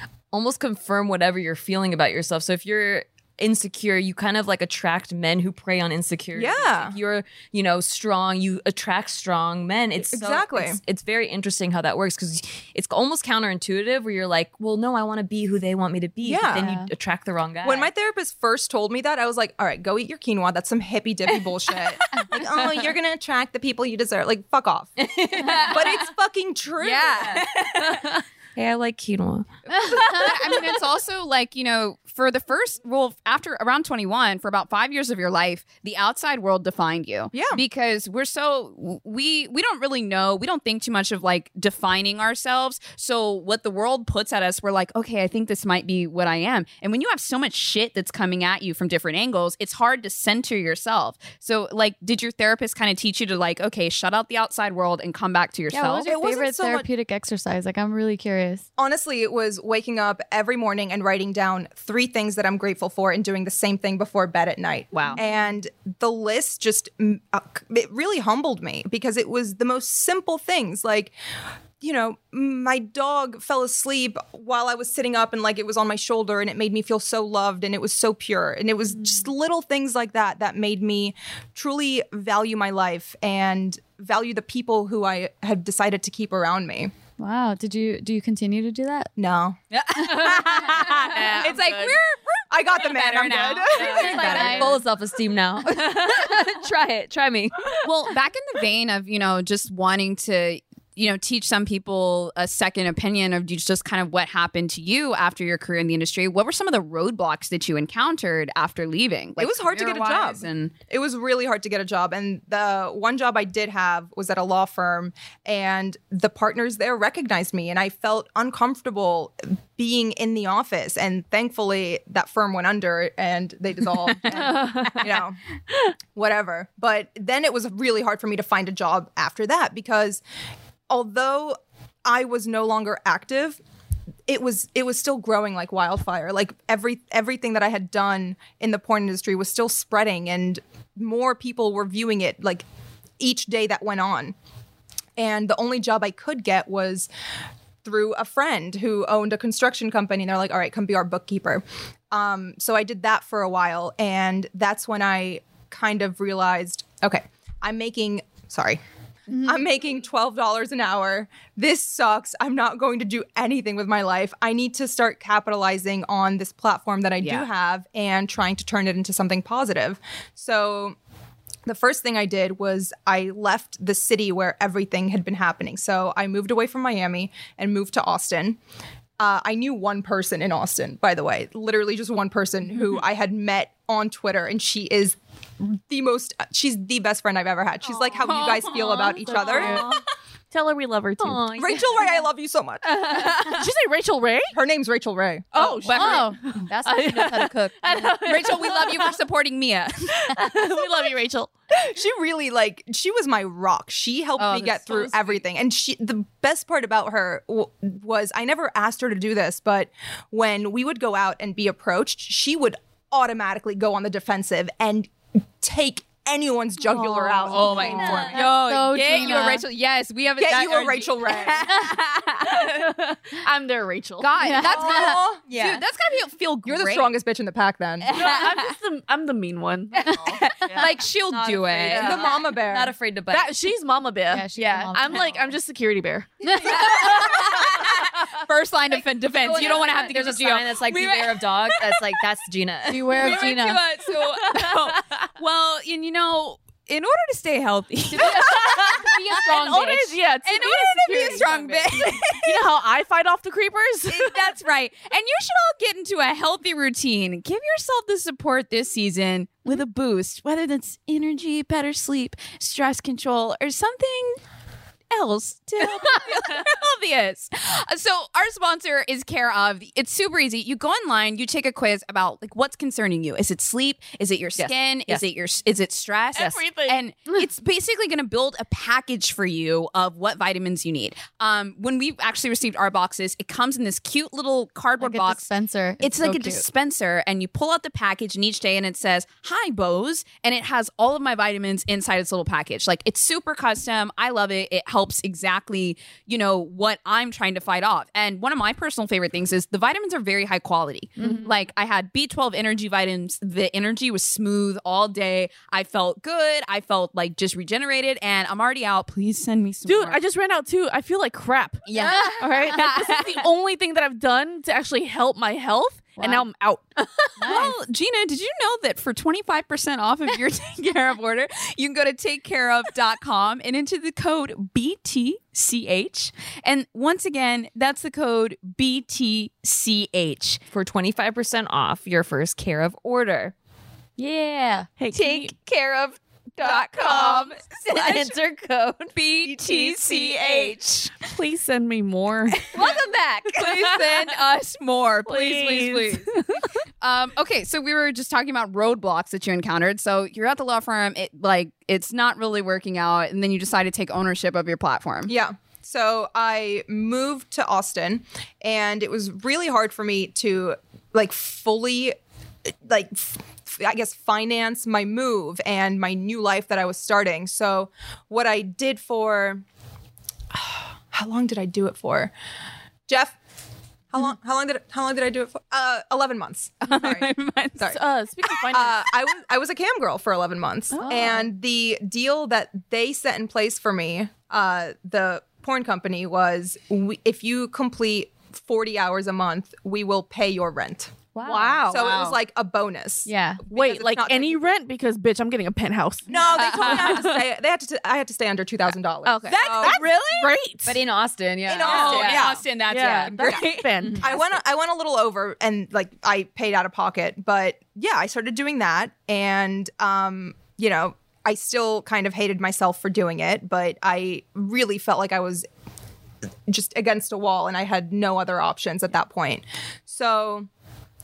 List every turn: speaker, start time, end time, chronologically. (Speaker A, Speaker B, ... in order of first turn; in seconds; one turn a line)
Speaker A: 0.3-17.9
Speaker B: 6.3-7.0
Speaker B: 10.0-10.8
Speaker B: 16.2-16.7
Speaker C: 16.6-16.9
Speaker B: 17.6-25.0
Speaker A: 25.0-26.1
Speaker D: 25.4-25.7
Speaker B: 25.6-27.4
Speaker D: 26.8-27.5
Speaker A: 27.2-30.8
Speaker D: 29.9-56.1
Speaker B: 37.3-37.6
Speaker C: 55.7-58.7
Speaker B: 56.1-56.9
Speaker B: 58.8-71.2
Speaker D: 64.9-65.2
Speaker C: 65.2-65.4
Speaker B: 71.8-86.9
Speaker C: 87.2-89.1
Speaker B: 89.2-89.6
Speaker D: 89.7-92.0
Speaker E: 90.9-92.0
Speaker B: 91.4-92.0
Speaker B: 92.5-94.7
Speaker D: 92.7-94.8
Speaker A: 93.8-97.8
Speaker C: 93.9-94.8
Speaker D: 97.8-110.7
Speaker B: 109.4-125.4
Speaker E: 124.3-125.1
Speaker B: 126.2-130.2
Speaker B: 130.9-133.6
Speaker B: 134.3-142.7
Speaker B: 143.2-144.3
Speaker B: 145.2-147.1
Speaker B: 147.8-158.8
Speaker B: 159.3-171.0
Speaker B: 171.7-178.6
Speaker B: 179.2-189.9
Speaker D: 188.3-189.9
Speaker E: 189.3-189.8
Speaker A: 189.7-190.0
Speaker E: 190.5-191.5
Speaker A: 191.2-192.1
Speaker B: 191.6-193.2
Speaker E: 193.1-194.6
Speaker B: 194.5-195.8
Speaker E: 195.5-199.2
Speaker D: 195.6-200.4
Speaker C: 195.9-196.3
Speaker E: 200.2-201.5
Speaker B: 201.7-218.4
Speaker D: 204.4-205.2
Speaker C: 216.9-219.6
Speaker D: 217.5-222.9
Speaker A: 217.6-218.4
Speaker B: 220.4-221.8
Speaker E: 222.5-224.4
Speaker D: 224.2-227.1
Speaker C: 224.4-225.1
Speaker B: 224.6-225.5
Speaker A: 225.5-225.8
Speaker B: 226.7-228.1
Speaker D: 228.0-228.7
Speaker E: 228.1-230.9
Speaker D: 230.0-232.3
Speaker A: 230.8-233.5
Speaker E: 231.9-232.3
Speaker B: 231.9-232.9
Speaker E: 233.3-236.4
Speaker C: 234.3-235.5
Speaker D: 234.6-234.9
Speaker D: 236.4-242.0
Speaker A: 236.6-238.3
Speaker A: 239.3-245.0
Speaker C: 242.9-243.8
Speaker D: 243.2-252.6
Speaker A: 248.2-249.1
Speaker E: 249.4-254.5
Speaker D: 254.1-264.4
Speaker D: 265.1-285.5
Speaker A: 274.6-275.2
Speaker E: 276.4-277.0
Speaker C: 285.0-286.6
Speaker D: 286.0-310.2
Speaker C: 301.2-301.5
Speaker E: 309.9-316.9
Speaker D: 311.9-313.4
Speaker C: 316.2-316.4
Speaker C: 317.4-317.8
Speaker D: 317.4-330.6
Speaker A: 330.7-333.5
Speaker C: 334.2-334.9
Speaker E: 335.0-335.5
Speaker A: 335.1-341.1
Speaker D: 336.6-338.3
Speaker D: 339.1-341.1
Speaker E: 341.2-342.6
Speaker D: 342.7-346.4
Speaker A: 342.7-344.3
Speaker E: 345.3-346.7
Speaker D: 347.0-355.3
Speaker B: 355.3-362.2
Speaker B: 362.8-369.6
Speaker B: 370.5-372.3
Speaker B: 373.1-373.4
Speaker B: 374.1-378.0
Speaker D: 376.9-377.9
Speaker E: 377.8-379.0
Speaker B: 378.7-391.2
Speaker D: 380.9-381.2
Speaker C: 381.0-381.4
Speaker A: 391.4-392.0
Speaker D: 391.4-392.4
Speaker E: 391.5-391.9
Speaker B: 391.9-394.6
Speaker E: 393.7-397.4
Speaker B: 396.3-400.0
Speaker D: 396.4-397.2
Speaker D: 399.2-400.5
Speaker E: 399.6-401.0
Speaker A: 400.9-402.5
Speaker B: 401.7-402.6
Speaker D: 401.8-404.1
Speaker E: 401.8-404.6
Speaker B: 403.3-415.7
Speaker B: 416.7-420.7